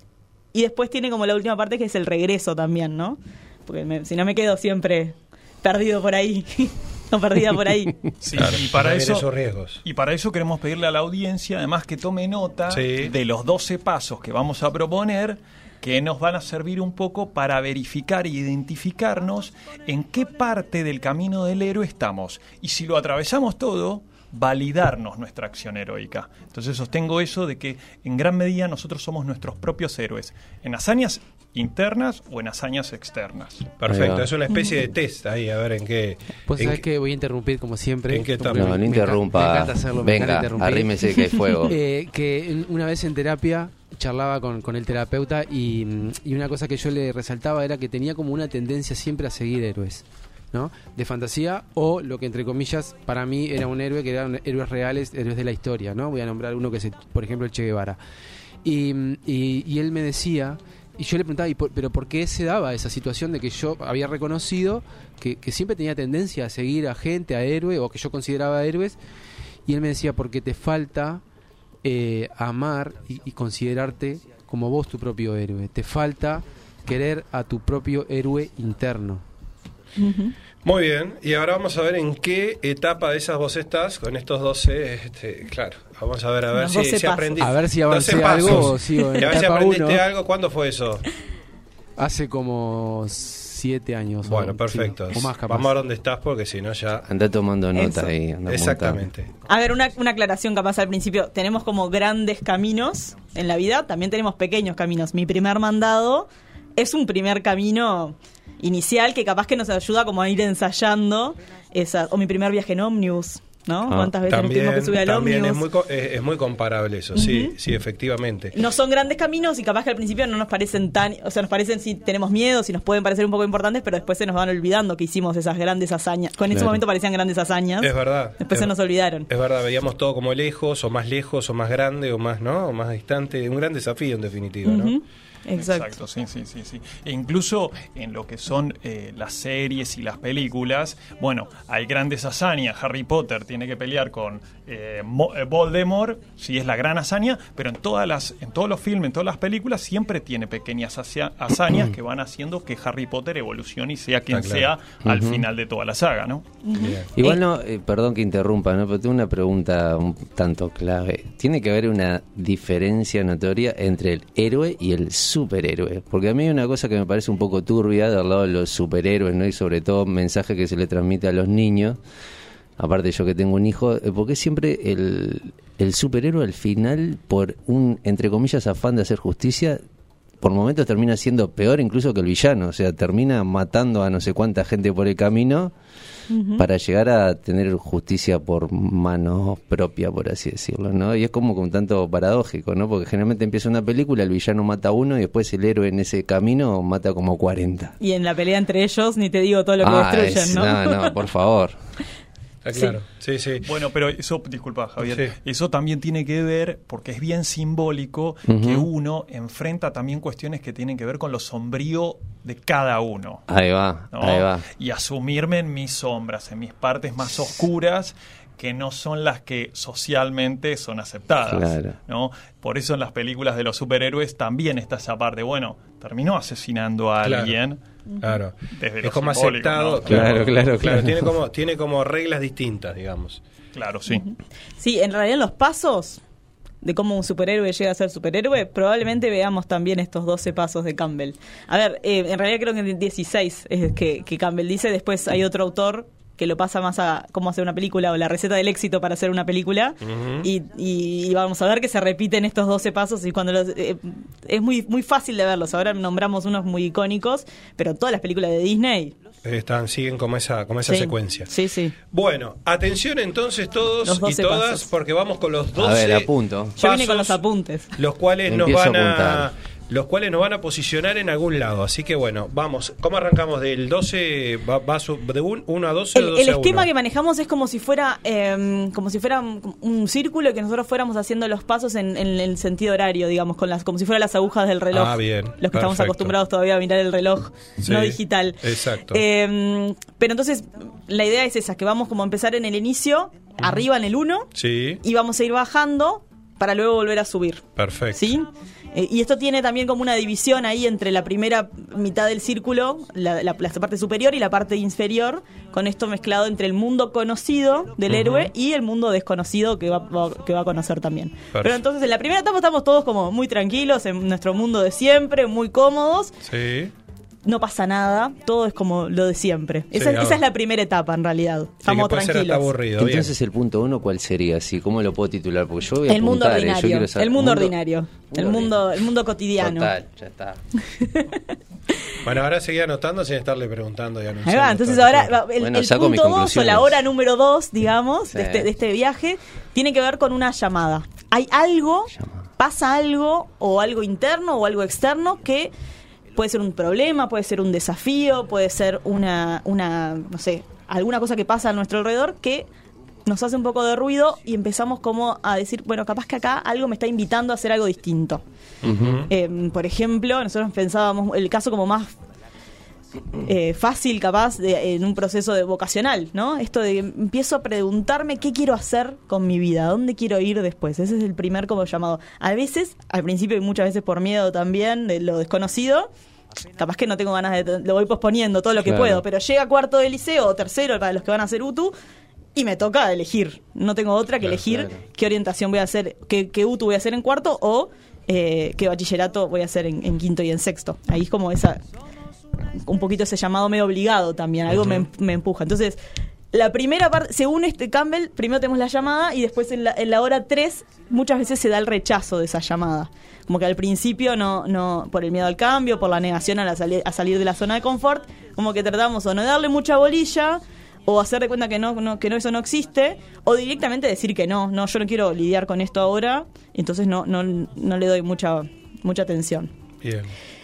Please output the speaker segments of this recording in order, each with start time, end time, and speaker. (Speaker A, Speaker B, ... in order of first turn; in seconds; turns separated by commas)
Speaker A: 0.5-8.1, Speaker B: 8.2-9.3, Speaker C: 8.3-9.8, Speaker B: 9.8-33.7, Speaker C: 12.7-13.1, Speaker C: 33.8-36.8, Speaker D: 33.9-34.3, Speaker E: 36.5-58.0, Speaker C: 38.1-38.8, Speaker D: 38.6-41.7, Speaker E: 58.6-69.0, Speaker E: 69.7-71.2, Speaker E: 71.8-79.2, Speaker A: 80.0-80.3, Speaker C: 80.6-91.0, Speaker A: 86.5-87.3, Speaker E: 87.4-90.0, Speaker E: 92.0-95.7, Speaker C: 94.2-97.0, Speaker D: 97.0-99.0, Speaker A: 97.8-98.1, Speaker C: 98.5-99.3, Speaker A: 99.5-115.6, Speaker D: 113.9-114.1, Speaker C: 114.2-118.5, Speaker A: 117.1-117.5, Speaker A: 118.5-129.3, Speaker D: 126.5-126.8, Speaker C: 127.8-128.7, Speaker C: 129.3-135.0, Speaker A: 134.6-135.9, Speaker B: 135.5-156.4, Speaker C: 154.3-154.7, Speaker D: 155.0-155.4, Speaker A: 156.6-157.4, Speaker C: 156.8-157.1, Speaker D: 157.1-172.0, Speaker D: 172.8-179.8, Speaker D: 180.4-185.7, Speaker A: 186.3-186.6, Speaker D: 186.6-197.9, Speaker A: 198.0-201.1, Speaker D: 199.8-201.8, Speaker C: 202.6-203.7, Speaker B: 203.6-213.4, Speaker C: 205.0-205.3, Speaker D: 208.5-208.8, Speaker D: 213.5-214.7, Speaker B: 214.1-227.8, Speaker D: 221.4-221.9, Speaker C: 227.2-227.6, Speaker C: 228.2-233.4, Speaker B: 228.7-230.7, Speaker D: 230.1-231.3, Speaker B: 233.7-234.2, Speaker A: 234.1-236.2, Speaker A: 236.8-259.1, Speaker C: 250.0-250.5, Speaker C: 259.4-261.5, Speaker A: 260.9-261.9, Speaker C: 262.1-267.4, Speaker A: 264.0-264.9, Speaker D: 265.8-266.8, Speaker A: 266.8-267.9, Speaker C: 267.9-276.9, Speaker D: 268.5-269.5, Speaker A: 276.1-294.5, Speaker C: 284.9-286.4, Speaker C: 287.8-289.2, Speaker C: 293.6-293.8, Speaker C: 294.5-295.0, Speaker A: 295.0-316.4, Speaker C: 297.8-298.3, Speaker C: 308.1-308.5, Speaker C: 311.5-311.8, Speaker C: 316.4-316.9, Speaker A: 317.4-322.7, Speaker C: 319.9-320.4, Speaker C: 321.8-323.3, Speaker D: 322.9-327.7, Speaker A: 326.1-329.9, Speaker D: 328.2-328.8, Speaker D: 329.6-330.6, Speaker A: 330.8-331.6, Speaker C: 332.2-335.4, Speaker A: 334.4-345.7, Speaker D: 335.6-337.0, Speaker D: 338.3-338.7, Speaker D: 342.1-342.4, Speaker A: 346.3-352.7, Speaker A: 353.2-358.4, Speaker C: 358.8-359.3, Speaker D: 358.8-359.2, Speaker A: 359.3-362.1, Speaker A: 363.4-376.1, Speaker A: 376.8-381.9, Speaker D: 378.8-379.2, Speaker A: 382.5-391.8, Speaker D: 384.6-385.0, Speaker A: 392.8-396.0, Speaker C: 394.8-395.0, Speaker A: 396.5-419.7, Speaker C: 420.0-420.3